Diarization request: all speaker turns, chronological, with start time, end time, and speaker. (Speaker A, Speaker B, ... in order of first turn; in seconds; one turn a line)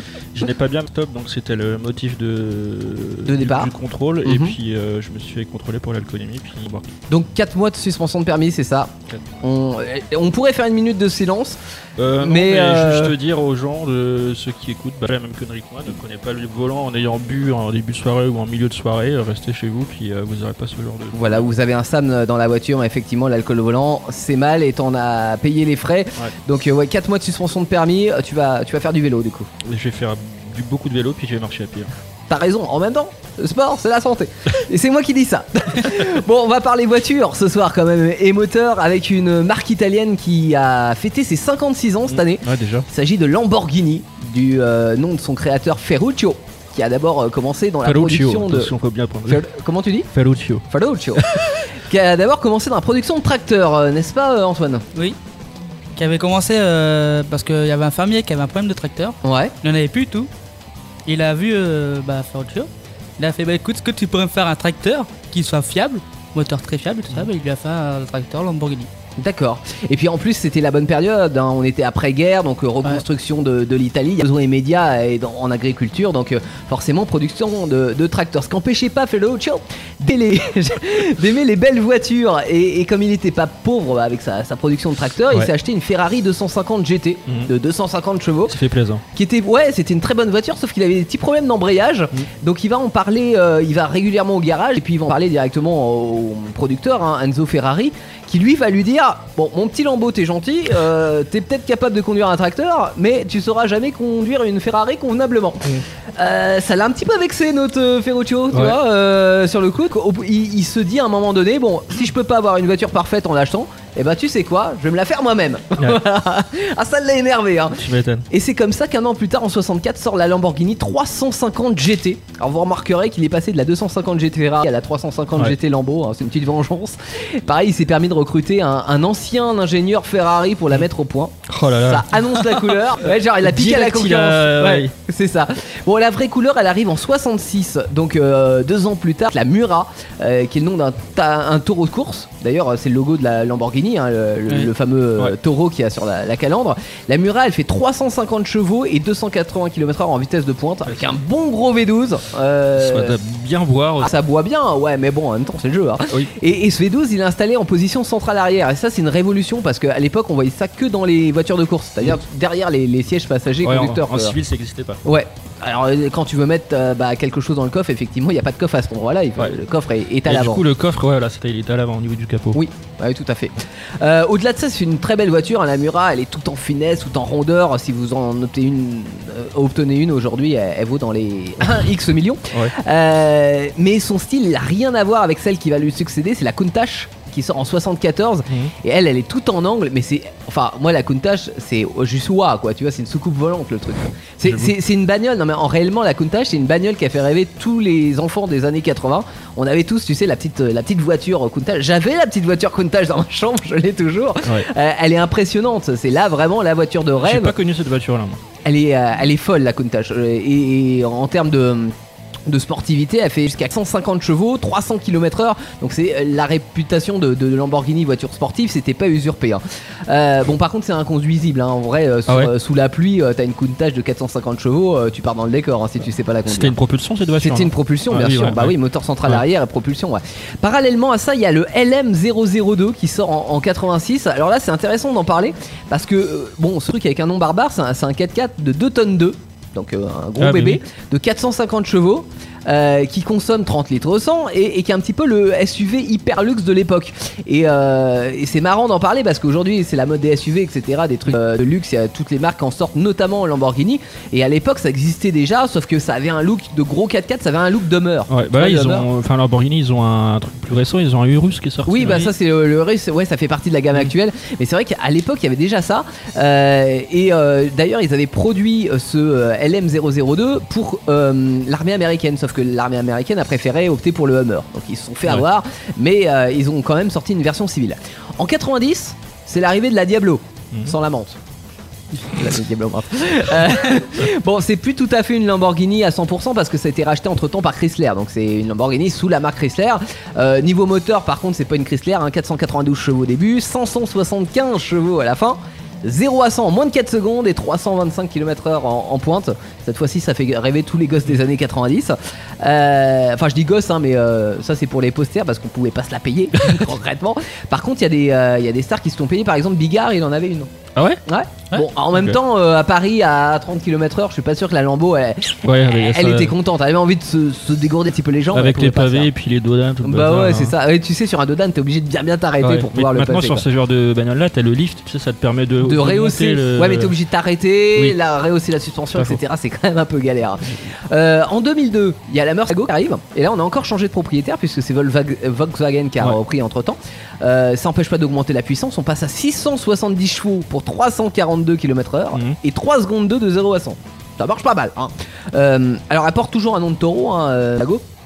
Speaker A: 0.3-6.9
Speaker B: 3.2-3.7
Speaker B: 4.2-4.5
Speaker B: 7.1-11.6
Speaker A: 12.0-21.5
Speaker B: 12.2-13.1
Speaker B: 21.1-29.5
Speaker A: 29.6-31.9
Speaker B: 32.3-48.7
Speaker A: 42.1-42.9
Speaker A: 47.8-49.4
Speaker B: 49.3-50.1
Speaker A: 50.1-50.6
Speaker B: 50.7-51.3
Speaker A: 51.1-51.6
Speaker B: 51.8-54.8
Speaker C: 56.0-60.3
Speaker B: 59.2-59.5
Speaker C: 61.0-68.9
Speaker B: 69.2-88.5
Speaker A: 88.5-89.0
Speaker B: 89.1-153.2
Speaker A: 108.5-108.8
Speaker A: 117.8-118.2
Speaker A: 131.5-134.9
Speaker A: 150.8-151.1
Speaker A: 152.7-154.1
Speaker B: 154.0-164.4
Speaker A: 163.6-165.0
Speaker B: 165.0-170.6
Speaker A: 170.2-172.6
Speaker B: 172.5-207.6
Speaker A: 194.4-194.7
Speaker A: 207.2-208.4
Speaker B: 208.6-211.9
Speaker B: 212.5-226.7
Speaker A: 226.4-229.4
Speaker B: 227.4-259.1
Speaker A: 240.4-240.8
Speaker A: 258.3-262.3
Speaker B: 261.9-281.4
Speaker B: 282.2-310.7
Speaker A: 310.9-311.2
Speaker B: 311.2-319.3
Speaker A: 312.1-312.4
Speaker A: 315.6-316.6
Speaker A: 318.5-320.8
Speaker B: 320.0-323.6
Speaker A: 322.6-327.1
Speaker B: 325.8-348.0